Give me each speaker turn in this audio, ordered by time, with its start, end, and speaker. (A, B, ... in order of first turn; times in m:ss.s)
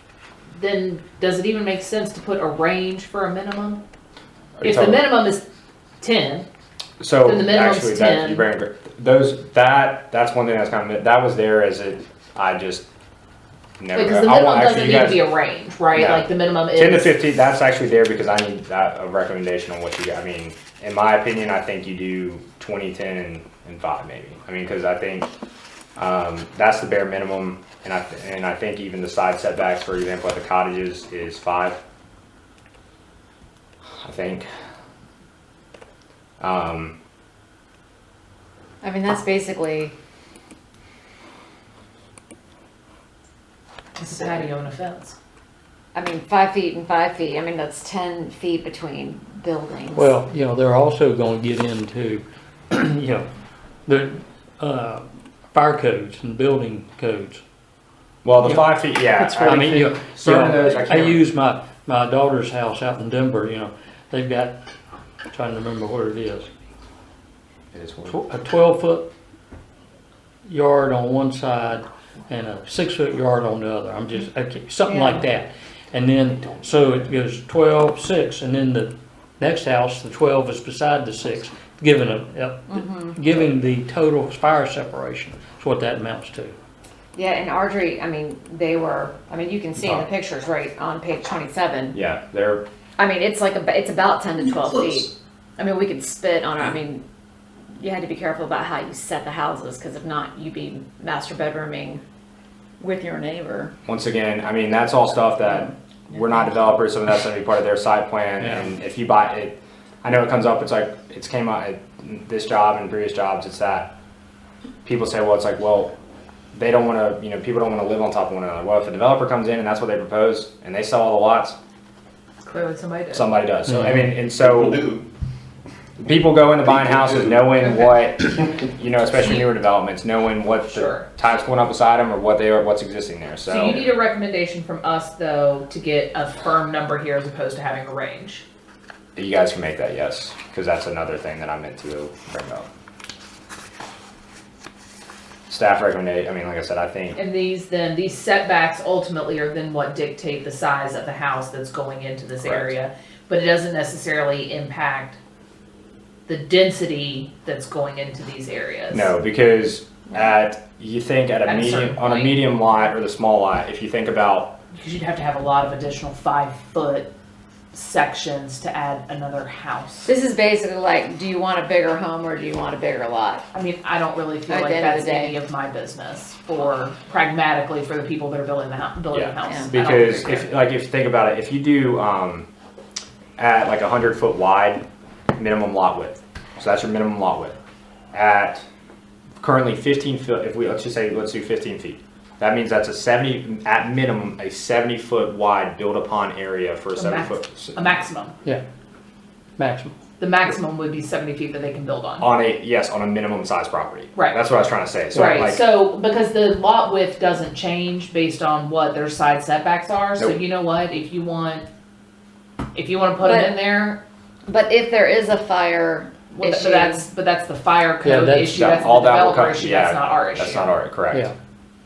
0:00.5-0:03.8 A
0:04.6-0:05.1 B
0:04.6-0:05.4 A
0:06.0-0:06.5 A
0:07.0-0:12.9 B
0:07.2-0:08.5 A
0:13.8-0:15.2 B
0:13.9-0:17.1 A
0:15.9-0:25.3 B
0:26.0-0:31.8 B
0:34.0-0:34.5 B
0:36.4-0:37.0 B
0:38.8-0:39.9 C
0:44.0-0:45.1 A
0:45.9-0:50.1 C
0:49.9-0:53.3 D
0:53.8-0:57.4 D
0:58.2-1:01.2 B
0:58.4-1:04.6 D
1:05.3-1:06.5 D
1:07.7-1:08.2 B
1:08.0-1:09.1 D
1:10.4-1:26.5 D
1:14.8-1:15.2 C
1:22.7-1:23.1 C
1:27.2-1:32.0 C
1:29.8-1:30.1 B
1:31.9-1:32.6 B
1:33.0-1:37.0 C
1:37.8-1:42.0 C
1:42.8-1:43.7 C
1:43.8-1:53.9 B
1:48.4-1:48.7 D
1:54.8-1:55.9 B
1:56.5-2:01.6 B
2:02.4-2:03.3 A
2:03.1-2:04.9 B
2:03.6-2:04.1 D
2:06.0-2:13.9 B
2:10.7-2:11.1 A
2:13.5-2:18.4 A
2:19.2-2:22.7 B
2:25.5-2:27.2 B
2:27.1-2:35.2 A
2:32.4-2:32.7 B
2:36.3-2:39.1 A
2:38.9-2:44.6 B
2:41.4-2:42.5 A
2:44.7-2:47.1 A
2:47.7-2:50.1 A
2:50.0-2:53.4 C
2:53.5-3:00.5 A
2:54.5-2:55.4 C
2:59.1-3:02.5 B
3:03.4-3:04.8 B
3:05.4-3:07.6 B
3:08.1-3:08.6 B
3:09.4-3:18.0 B
3:16.9-3:18.3 A
3:19.6-3:20.0 D
3:20.2-3:22.3 A
3:22.2-3:25.6 B
3:24.1-3:24.4 A
3:25.1-3:31.6 A
3:32.7-3:34.0 A
3:33.2-3:33.8 C
3:34.5-3:37.0 C
3:36.3-3:40.8 A
3:38.0-3:38.6 D
3:38.5-3:41.2 B